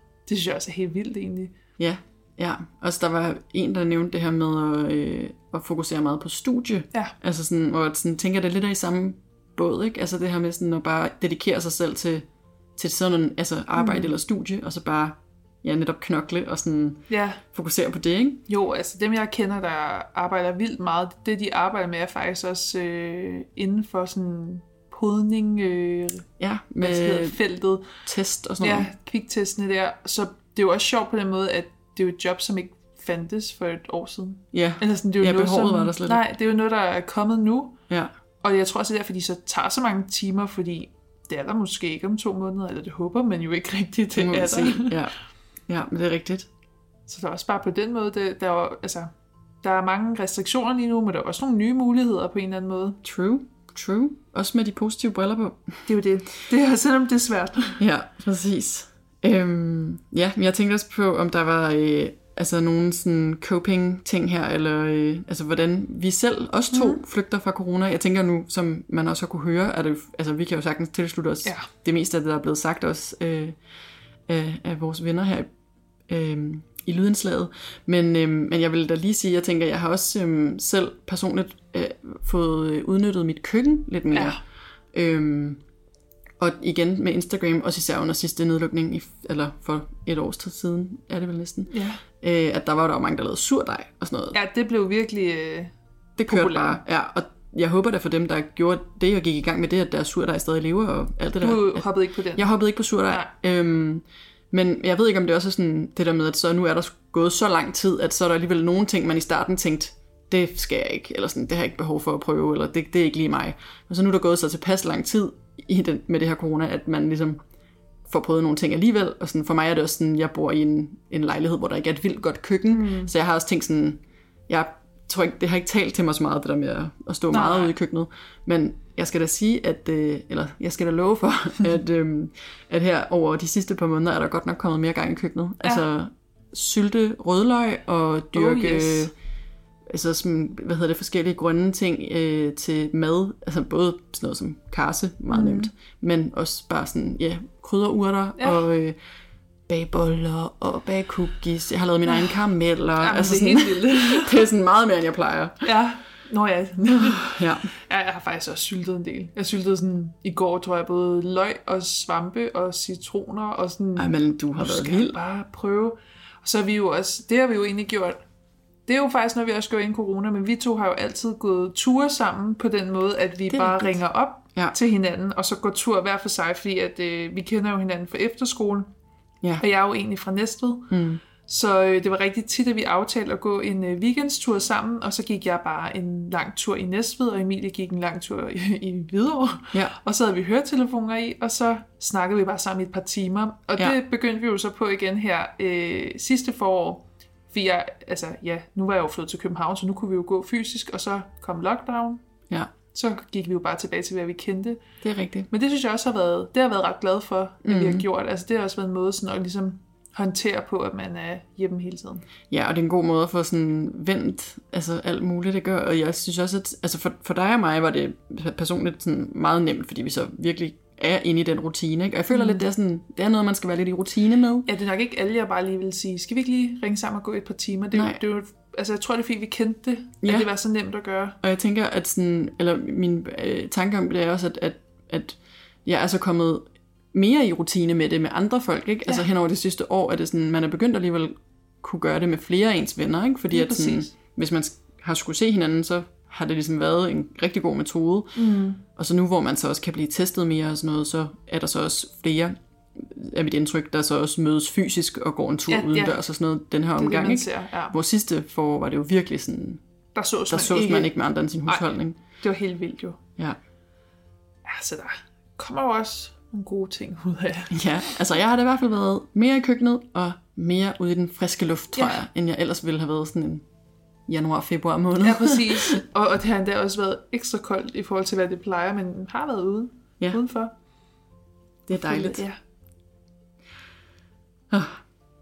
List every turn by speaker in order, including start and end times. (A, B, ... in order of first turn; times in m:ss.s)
0:00.3-0:01.5 A
0:01.8-0:18.4 B
0:13.7-0:14.1 A
0:17.1-0:17.4 A
0:18.5-0:26.3 A
0:26.4-0:27.4 B
0:26.8-0:27.9 A
0:28.0-0:28.9 B
0:28.6-0:37.8 A
0:34.5-0:36.2 B
0:38.4-0:45.0 A
0:44.1-0:45.1 B
0:45.7-0:46.5 B
0:47.1-0:49.1 A
0:49.6-0:53.0 A
0:53.0-0:55.8 B
0:55.9-0:57.8 A
0:57.8-1:13.6 B
1:06.7-1:07.0 A
1:14.3-1:15.5 B
1:16.1-1:24.4 B
1:24.1-1:24.4 A
1:24.9-1:25.6 B
1:26.4-1:34.4 B
1:31.7-1:32.0 A
1:34.3-1:35.7 A
1:36.2-1:57.4 B
1:36.3-1:36.8 A
1:41.4-1:42.5 A
1:58.1-2:19.1 B
2:02.7-2:03.1 A
2:07.3-2:07.7 A
2:18.3-2:19.1 A
2:19.9-2:29.0 B
2:25.3-2:25.7 A
2:28.4-2:28.6 A
2:29.7-2:35.7 B
2:32.1-2:32.3 A
2:33.0-2:34.5 A
2:35.6-2:48.2 A
2:37.0-2:37.7 B
2:44.0-2:45.2 B
2:48.9-2:58.9 A
2:53.5-2:54.0 B
2:59.6-3:00.9 A
3:00.9-3:01.2 B
3:01.4-3:22.2 A
3:22.9-3:24.8 A
3:25.0-3:25.5 B
3:25.5-3:32.2 A
3:27.6-3:28.1 B
3:32.5-3:44.7 B
3:42.3-3:42.6 A
3:44.6-3:51.4 A
3:47.9-3:48.2 B
3:50.2-3:50.5 B
3:51.4-4:08.4 B
4:03.5-4:04.1 A
4:08.4-4:08.8 A
4:09.0-4:19.8 B
4:15.7-4:16.2 A
4:17.0-4:18.0 A
4:20.1-4:21.1 A
4:20.5-4:22.2 B
4:21.6-4:23.2 A
4:24.6-4:27.8 A
4:27.7-4:33.6 B
4:34.3-4:36.0 B
4:35.2-4:40.7 A
4:41.9-4:42.4 B
4:41.9-4:42.6 A
4:44.7-4:45.0 B